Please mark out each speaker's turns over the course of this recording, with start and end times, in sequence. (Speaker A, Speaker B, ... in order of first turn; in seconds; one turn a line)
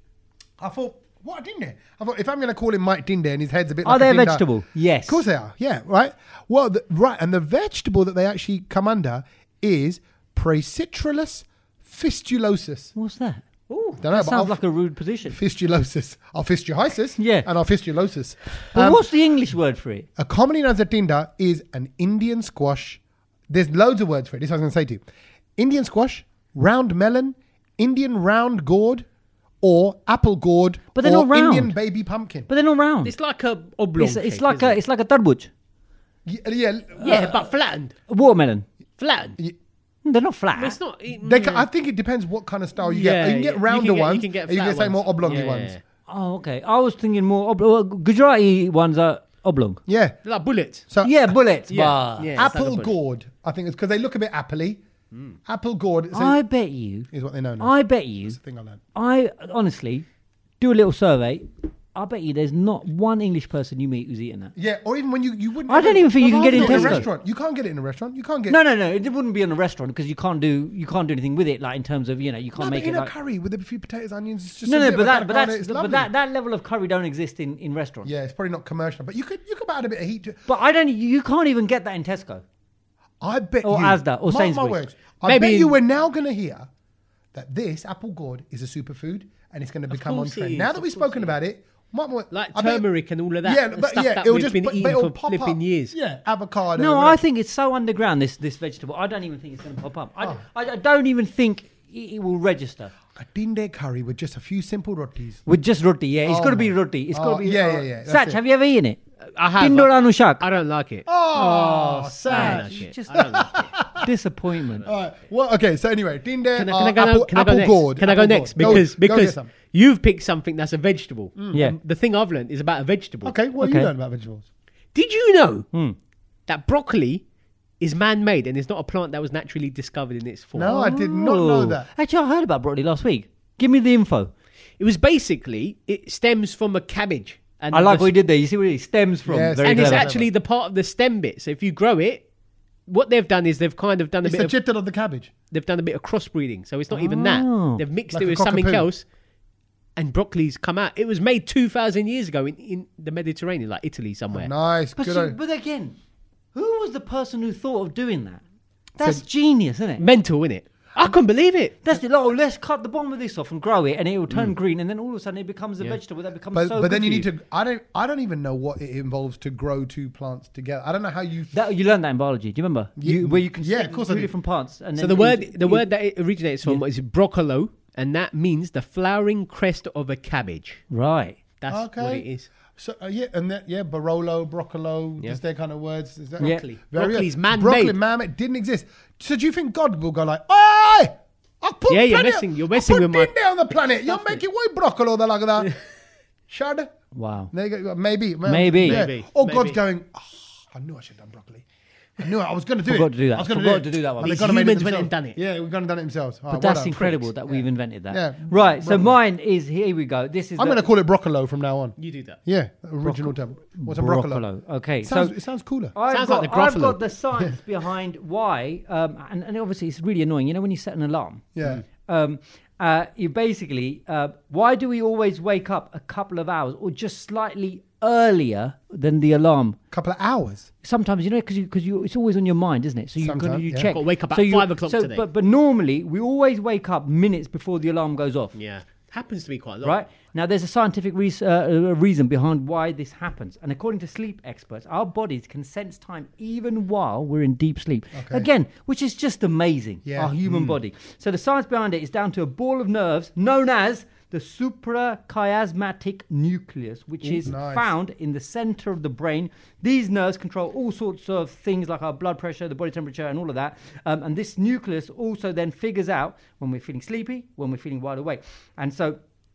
Speaker A: 0.6-4.4
Speaker B: 3.8-5.2
Speaker A: 5.1-12.9
Speaker B: 12.9-15.3
Speaker A: 14.0-14.6
Speaker A: 15.3-19.0
Speaker B: 17.2-17.5
Speaker B: 18.7-20.1
Speaker A: 20.2-25.0
Speaker A: 25.6-29.1
Speaker A: 29.6-32.5
Speaker B: 30.9-31.7
Speaker B: 32.5-33.1
Speaker C: 33.0-34.8
Speaker B: 34.0-35.5
Speaker A: 36.2-37.4
Speaker B: 37.0-37.4
Speaker C: 37.0-37.9
Speaker B: 38.1-38.6
Speaker C: 39.0-39.4
Speaker B: 40.0-40.8
Speaker C: 40.5-41.6
Speaker A: 41.2-45.8
Speaker C: 42.8-45.8
Speaker B: 46.1-49.8
Speaker A: 49.9-50.2
Speaker C: 50.2-50.9
Speaker A: 50.9-51.3
Speaker B: 51.0-52.4
Speaker C: 51.7-52.9
Speaker A: 52.4-54.8
Speaker A: 55.5-56.4
Speaker B: 56.1-57.1
Speaker A: 57.1-57.7
Speaker B: 57.6-58.4
Speaker A: 58.3-58.8
Speaker B: 58.9-60.0
Speaker B: 60.6-64.5
Speaker A: 64.5-68.6
Speaker B: 65.7-67.1
Speaker C: 66.3-67.1
Speaker B: 68.5-73.1
Speaker A: 72.5-76.1
Speaker B: 74.7-78.1
Speaker A: 78.0-80.4
Speaker B: 80.5-82.4
Speaker A: 83.2-86.7
Speaker B: 83.6-84.8
Speaker C: 85.2-85.8
Speaker A: 87.3-92.8
Speaker C: 89.9-91.3
Speaker C: 92.3-95.9
Speaker A: 93.4-97.2
Speaker B: 96.8-102.9
Speaker A: 103.1-105.4
Speaker B: 105.5-109.0
Speaker A: 106.3-108.4
Speaker C: 109.3-111.1
Speaker B: 109.5-110.5
Speaker A: 111.0-114.1
Speaker B: 111.3-114.9
Speaker C: 112.2-113.7
Speaker A: 114.8-119.5
Speaker C: 116.5-123.3
Speaker A: 121.4-121.8
Speaker A: 123.2-124.5
Speaker B: 123.6-123.9
Speaker C: 124.9-125.7
Speaker C: 126.5-127.2
Speaker C: 127.8-130.7
Speaker A: 130.6-131.9
Speaker B: 130.6-134.3
Speaker C: 134.8-138.1
Speaker B: 137.7-140.1
Speaker A: 139.2-140.3
Speaker C: 139.6-142.2
Speaker C: 142.9-144.5
Speaker A: 144.2-145.3
Speaker C: 145.5-149.1
Speaker B: 146.9-147.8
Speaker A: 148.1-148.9
Speaker C: 149.9-154.5
Speaker A: 154.3-155.3
Speaker B: 155.0-155.9
Speaker B: 156.5-158.4
Speaker B: 159.0-160.0
Speaker C: 160.0-161.8
Speaker B: 161.8-167.3
Speaker A: 166.5-171.5
Speaker B: 171.5-175.8
Speaker A: 173.0-174.3
Speaker C: 175.0-180.8
Speaker B: 180.9-181.4
Speaker C: 181.6-182.5
Speaker A: 181.7-195.8
Speaker C: 186.4-187.9
Speaker C: 191.9-193.3
Speaker C: 194.1-194.4
Speaker A: 196.5-196.9
Speaker B: 197.1-197.5
Speaker A: 197.5-201.6
Speaker B: 198.4-199.1
Speaker C: 198.8-199.8
Speaker A: 202.2-209.1
Speaker B: 202.8-204.4
Speaker C: 204.2-205.4
Speaker B: 206.5-210.8
Speaker C: 206.9-207.3
Speaker A: 210.6-214.4
Speaker C: 212.0-212.4
Speaker B: 213.0-215.3
Speaker A: 215.0-215.9
Speaker B: 215.9-221.5
Speaker C: 216.1-217.0
Speaker A: 221.5-221.8
Speaker B: 222.1-229.8
Speaker A: 229.9-230.7
Speaker B: 230.8-238.5
Speaker A: 233.2-233.9
Speaker C: 233.9-235.2
Speaker C: 238.6-240.0
Speaker B: 239.8-269.2
Speaker A: 248.1-248.5
Speaker A: 250.0-250.7
Speaker A: 257.4-257.9